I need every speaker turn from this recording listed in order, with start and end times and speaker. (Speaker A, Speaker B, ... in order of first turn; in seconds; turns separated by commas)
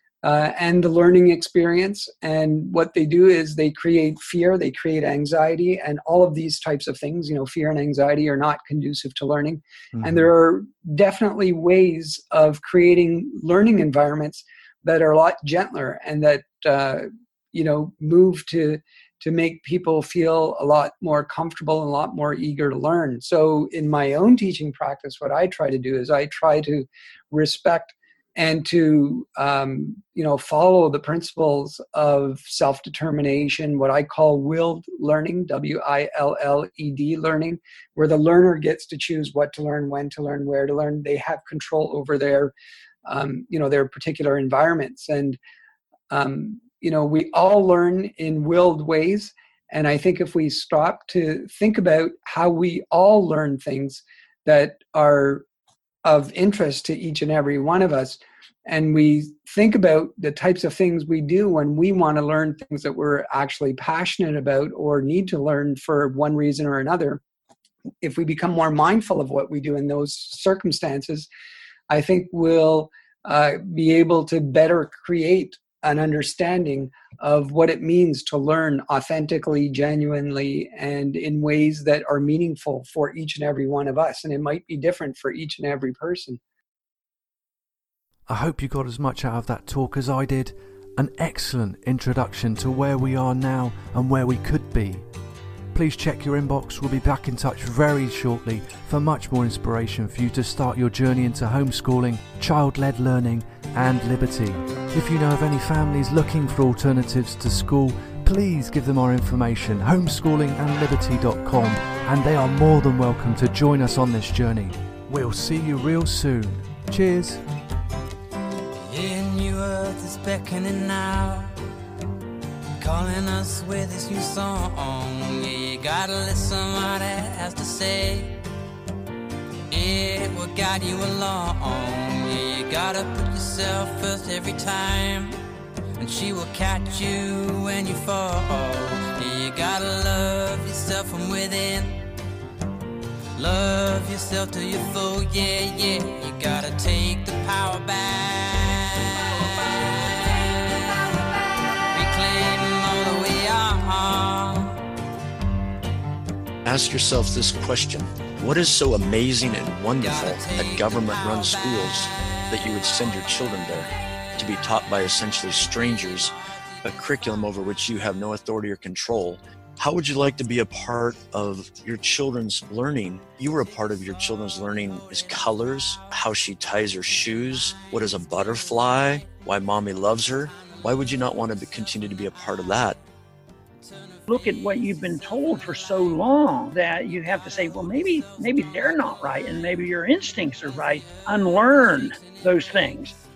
Speaker A: 0.2-42.5, Speaker A: 43.1-45.4, Speaker A: 46.1-55.5, Speaker A: 56.0-67.2, Speaker A: 68.0-71.3, Speaker A: 71.9-86.4, Speaker B: 88.3-95.1, Speaker B: 95.7-117.4, Speaker C: 118.9-121.5, Speaker C: 122.8-128.4, Speaker C: 129.7-135.4, Speaker C: 136.0-142.0, Speaker C: 143.4-149.5, Speaker C: 150.2-150.9, Speaker C: 151.9-154.8, Speaker D: 156.7-166.3, Speaker C: 160.0-163.3, Speaker C: 165.7-166.1, Speaker D: 166.8-183.0, Speaker C: 183.8-184.8, Speaker E: 184.3-193.1, Speaker C: 185.5-186.1, Speaker C: 190.7-193.1